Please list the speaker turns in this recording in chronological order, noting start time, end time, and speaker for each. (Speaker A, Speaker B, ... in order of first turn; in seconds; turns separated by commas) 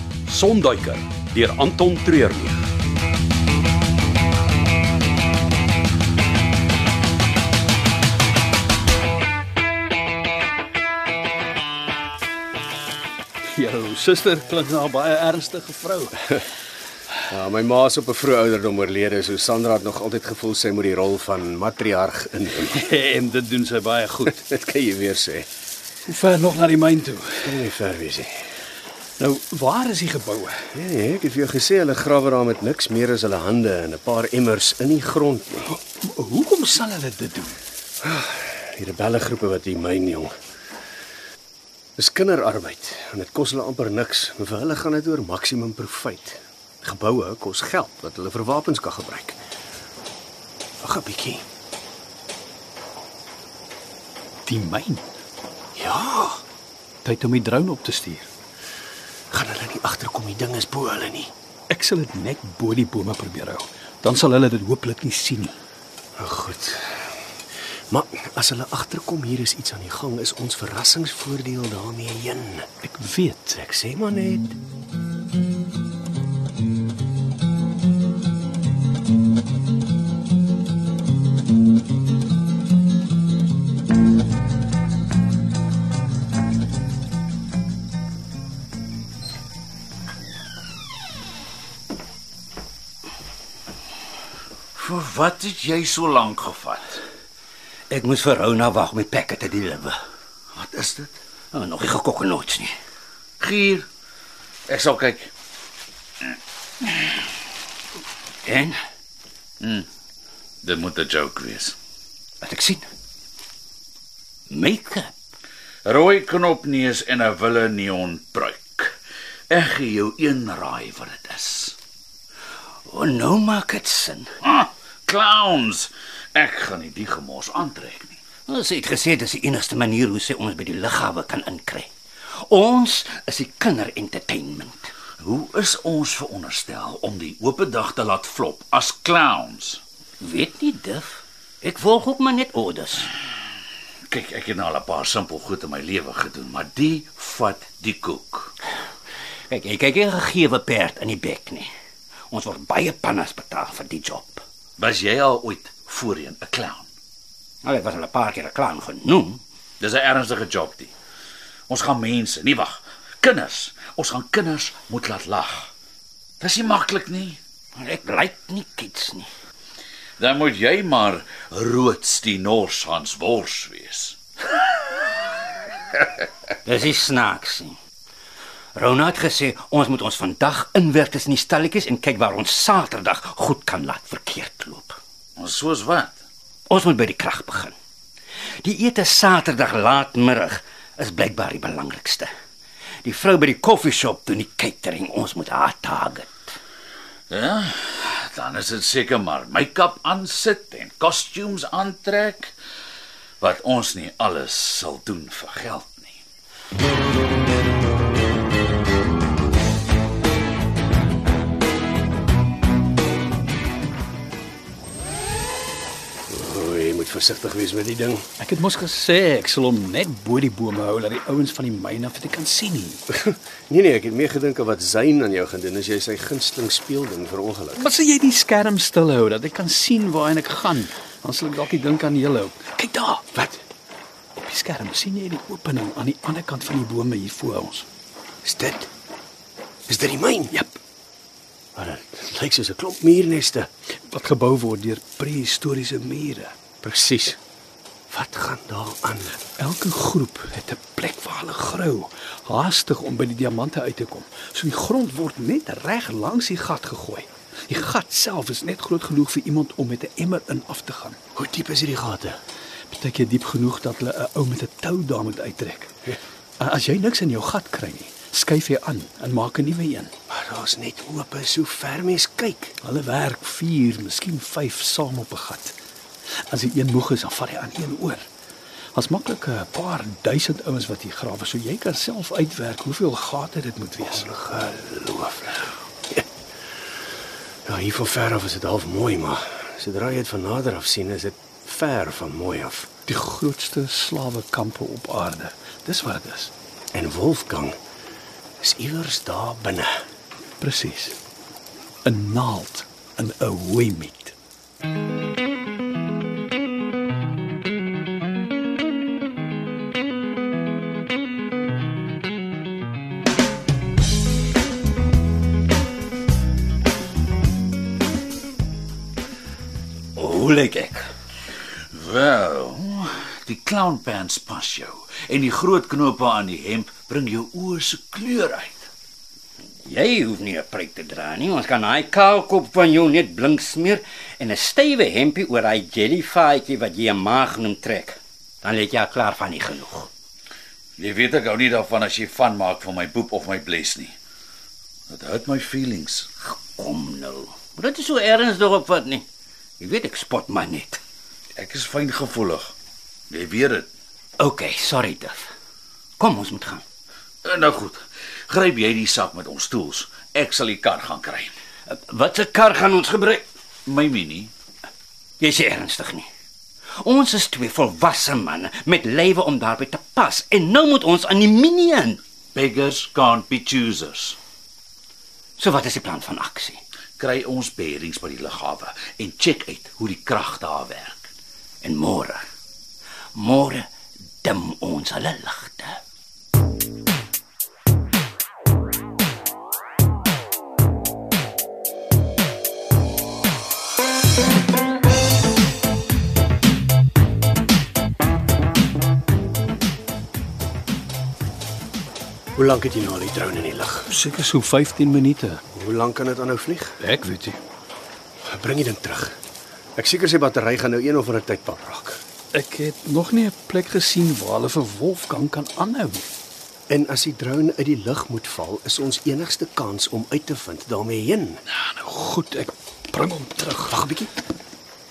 Speaker A: 0.3-2.6, Speaker B: 13.5-16.1, Speaker C: 17.3-22.8, Speaker B: 22.7-24.4, Speaker C: 24.3-25.5, Speaker B: 26.1-27.5, Speaker C: 27.4-28.3, Speaker B: 29.2-30.6, Speaker C: 30.7-35.8, Speaker B: 36.0-37.6, Speaker C: 38.0-40.3, Speaker C: 42.0-49.4, Speaker C: 50.8-51.4, Speaker B: 54.5-55.1, Speaker C: 55.8-56.4, Speaker B: 57.0-58.3, Speaker C: 59.3-61.3, Speaker B: 61.7-65.6, Speaker C: 66.2-67.0, Speaker C: 67.9-72.7, Speaker B: 72.8-73.6, Speaker C: 73.6-74.5, Speaker D: 94.7-97.0, Speaker E: 97.9-100.0, Speaker D: 100.5-101.1, Speaker E: 101.5-102.7, Speaker D: 103.4-103.8, Speaker D: 104.7-105.3, Speaker D: 106.9-107.2, Speaker E: 108.4-108.8, Speaker D: 109.6-109.9, Speaker D: 110.6-111.7, Speaker E: 112.4-112.8, Speaker E: 114.5-115.1, Speaker D: 115.8-119.0, Speaker D: 119.5-121.8, Speaker E: 122.8-124.3, Speaker D: 124.4-128.2, Speaker E: 128.5-131.9, Speaker E: 132.5-134.9, Speaker D: 135.2-139.8, Speaker E: 140.2-143.1, Speaker D: 144.1-148.5, Speaker E: 149.5-151.7, Speaker E: 152.3-154.4, Speaker D: 154.8-156.9, Speaker E: 157.6-159.4, Speaker D: 159.8-160.9, Speaker D: 161.7-165.7, Speaker D: 166.4-167.4, Speaker E: 167.8-169.3, Speaker D: 170.2-174.2, Speaker E: 176.6-177.8, Speaker E: 178.7-185.0, Speaker D: 185.4-186.1, Speaker E: 186.7-187.7, Speaker E: 188.6-192.3, Speaker E: 193.0-196.3, Speaker D: 197.3-202.5, Speaker D: 203.4-206.2, Speaker C: 216.3-218.2, Speaker B: 218.4-223.0, Speaker C: 223.1-227.8, Speaker B: 227.7-233.3, Speaker C: 233.3-233.6, Speaker B: 234.4-237.8, Speaker C: 238.4-238.9, Speaker C: 239.9-240.5, Speaker B: 240.5-240.8, Speaker C: 241.7-243.7, Speaker B: 244.1-246.5, Speaker C: 246.8-247.4, Speaker C: 248.1-249.3, Speaker B: 249.6-261.2, Speaker C: 261.3-262.4, Speaker B: 262.9-265.9, Speaker B: 266.6-270.1, Speaker C: 270.3-272.7, Speaker B: 272.8-275.7, Speaker B: 276.5-278.2, Speaker B: 278.9-284.3, Speaker C: 284.1-286.2, Speaker C: 287.6-292.9, Speaker B: 293.1-296.5, Speaker C: 296.9-297.8, Speaker C: 298.6-300.0, Speaker B: 300.6-301.1, Speaker B: 302.0-304.4, Speaker E: 320.1-321.1, Speaker D: 321.9-328.9, Speaker E: 329.8-340.1, Speaker D: 341.0-344.1, Speaker D: 345.1-346.3, Speaker E: 346.5-349.2, Speaker E: 349.8-351.0, Speaker D: 351.6-352.7, Speaker D: 353.3-353.9, Speaker E: 354.4-355.5, Speaker E: 356.2-356.8, Speaker D: 357.4-361.5, Speaker E: 361.9-363.4, Speaker D: 363.9-364.5, Speaker E: 365.4-366.3, Speaker E: 367.0-372.2, Speaker D: 372.5-374.4, Speaker E: 375.6-376.8, Speaker D: 377.2-381.2, Speaker E: 381.8-382.4, Speaker E: 383.3-383.9, Speaker E: 384.4-386.0, Speaker C: 402.6-404.1, Speaker B: 404.1-405.6, Speaker C: 405.7-407.0, Speaker B: 407.0-407.6, Speaker C: 408.5-409.4, Speaker C: 410.0-412.2, Speaker B: 412.5-416.3, Speaker C: 416.9-421.6, Speaker B: 421.7-424.0, Speaker C: 423.9-424.3